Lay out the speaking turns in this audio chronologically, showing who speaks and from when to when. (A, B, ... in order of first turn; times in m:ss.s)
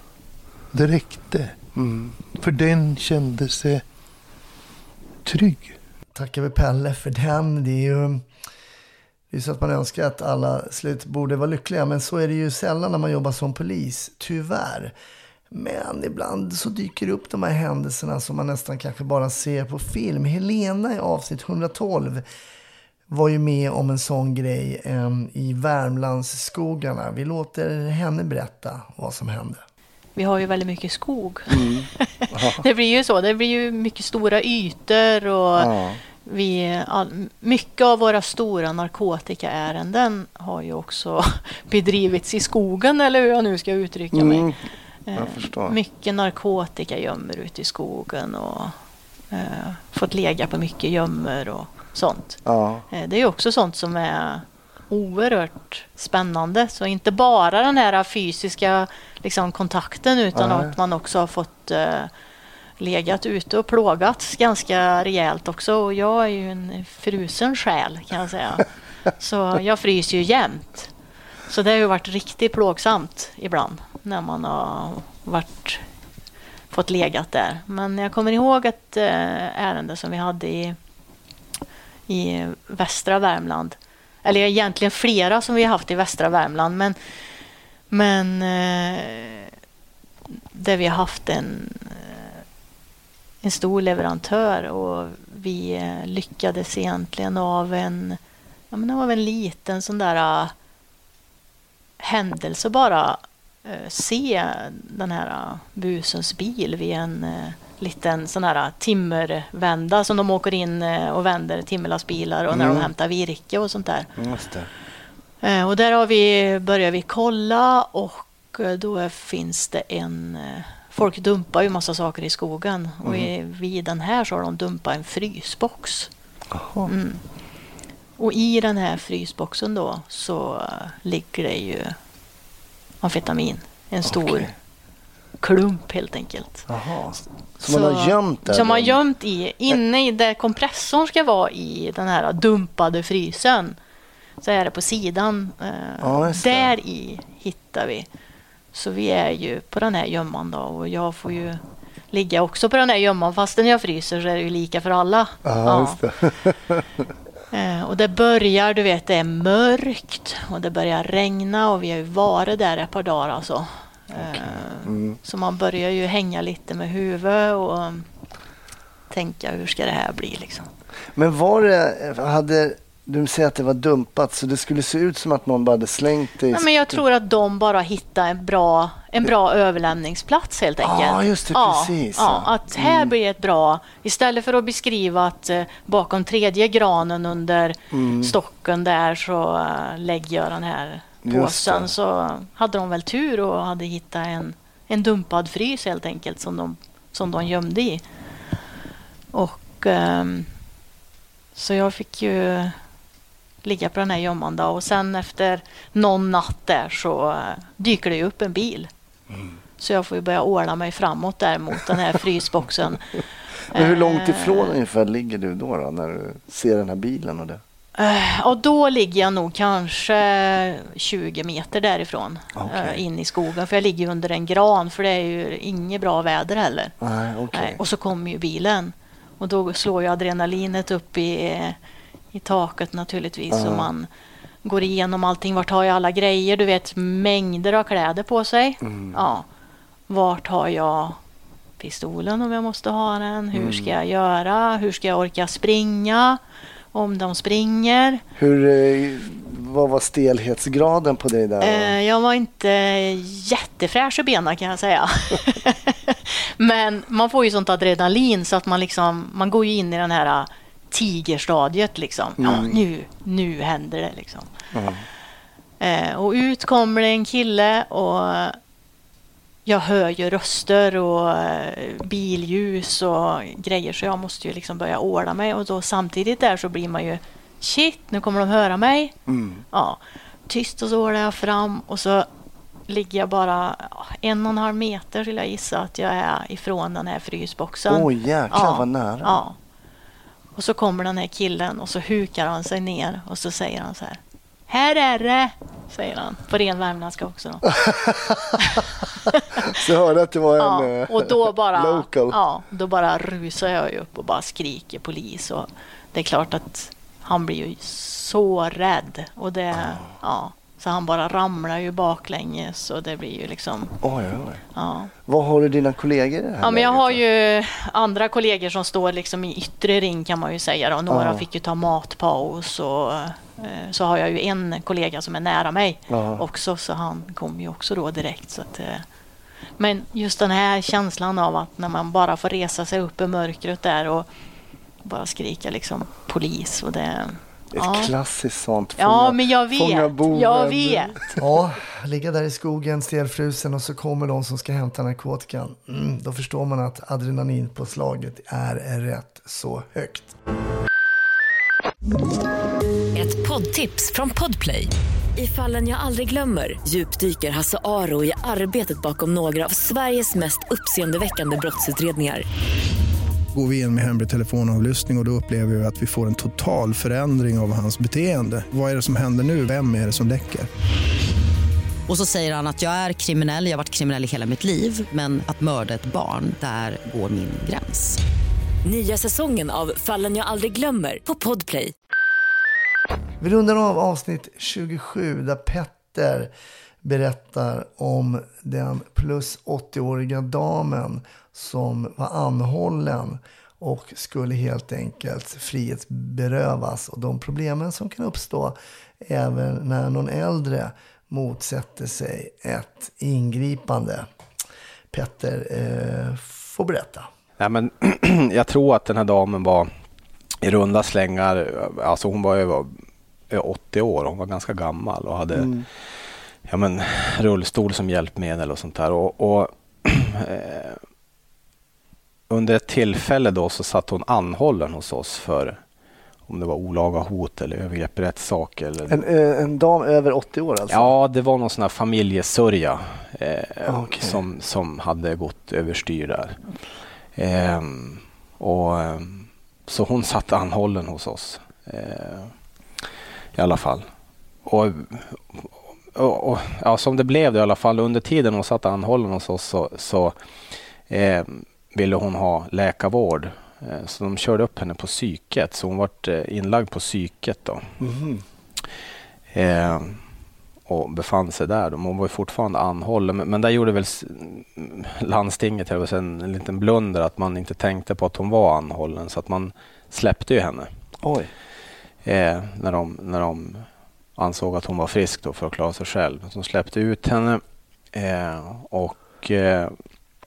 0:00.7-0:01.6 A
0:01.8-0:02.2 B
0:02.3-0:03.8 A
0:05.2-0:05.8 A
0:06.2-0:08.2 B
0:09.3-0:14.9 B
0:15.5-0:22.2 B
0:23.1-0:29.6 B
0:30.2-0:44.5 C
0:31.5-0:32.6 B
0:35.6-0:36.0 B
0:44.1-0:44.6 B
0:45.1-0:48.8 C
0:45.2-0:45.8 B
0:49.3-1:02.1 C
0:52.4-0:52.9 B
1:00.3-1:00.8 B
1:02.8-1:08.7 C
1:09.2-1:10.9 C
1:11.5-1:15.8 C
1:16.7-1:20.8 C
1:22.1-1:27.0 C
1:27.9-1:29.5 C
1:30.5-1:32.4 C
1:33.4-1:38.2 C
1:38.7-1:40.5 C
1:42.0-1:54.1 C
1:52.5-1:52.9 B
1:54.2-1:54.7 B
1:55.4-2:06.1 C
2:03.0-2:03.3 B
2:06.5-2:06.9 B
2:06.9-2:07.2 C
2:08.2-2:12.0 C
2:13.0-2:14.5 C
2:14.1-2:14.5 B
2:15.4-2:16.6 C
2:16.7-2:19.0 B
2:17.6-2:23.8 C
2:24.4-2:28.1 C
2:26.0-2:26.7 B
2:28.7-2:36.0 C
2:35.4-2:36.9 B
2:37.5-2:48.1 C
2:44.2-2:45.2 B
2:49.1-2:50.7 C
2:51.2-2:56.6 B
2:56.5-3:18.0 C
3:00.8-3:03.1 B
3:07.9-3:08.4 B
3:11.2-3:11.9 B
3:19.3-3:20.5 C
3:21.5-3:22.8 C
3:23.6-3:28.9 C
3:29.8-3:34.8 C
3:33.7-3:37.6 B
3:38.0-3:46.9 C
3:42.6-3:43.0 B
3:47.0-3:47.8 B
3:47.5-3:51.8 C
3:52.3-3:54.1 C
3:53.5-3:53.9 B
3:54.6-3:59.5 C
3:58.8-3:59.2 B
4:00.1-4:01.2 C
4:01.8-4:06.4 C
4:03.5-4:03.9 B
4:06.9-4:08.2 C
4:08.4-4:12.0 B
4:11.6-4:24.5 C
4:22.4-4:22.8 B
4:24.7-4:25.0 B
4:25.8-4:28.6 C
4:29.7-4:39.1 C
4:39.3-4:39.6 B
4:39.7-4:42.3 C
4:42.9-4:49.6 C
4:47.9-4:49.4 B
4:50.6-4:57.9 C
4:57.8-4:58.5 B
4:58.6-4:58.8 C
4:59.6-5:02.4 B
5:00.6-5:14.0 C
5:14.0-5:14.6 B
5:14.8-5:15.1 C
5:15.3-5:17.2 B
5:16.6-5:29.0 C
5:21.1-5:21.4 B
5:26.1-5:26.4 B
5:29.8-5:34.3 C
5:35.0-5:38.1 C
5:37.7-5:50.4 B
5:39.0-5:41.4 C
5:53.1-6:02.4 D
6:03.5-6:10.7 E
6:12.1-6:18.2 F
6:18.8-6:21.9 D
6:23.4-6:26.5 B
6:27.0-6:44.3 B
6:45.1-6:47.3 B
6:47.6-6:49.9 G
6:50.6-6:53.0 G
6:53.5-7:01.0 G
6:55.6-6:55.8 B
7:02.5-7:05.8 G
7:06.5-7:09.2 G
7:09.1-7:11.1 B
7:10.9-7:16.6 G
7:13.9-7:14.4 B
7:17.4-7:22.5 G
7:23.6-7:24.0 G
7:24.6-7:30.4 G
7:31.0-7:37.9 G
7:38.0-7:38.4 B
7:39.5-7:40.2 G
7:40.9-7:50.9 G
7:51.2-7:51.5 B
7:52.2-7:53.9 G
7:54.4-7:57.6 G
7:58.1-8:00.0 G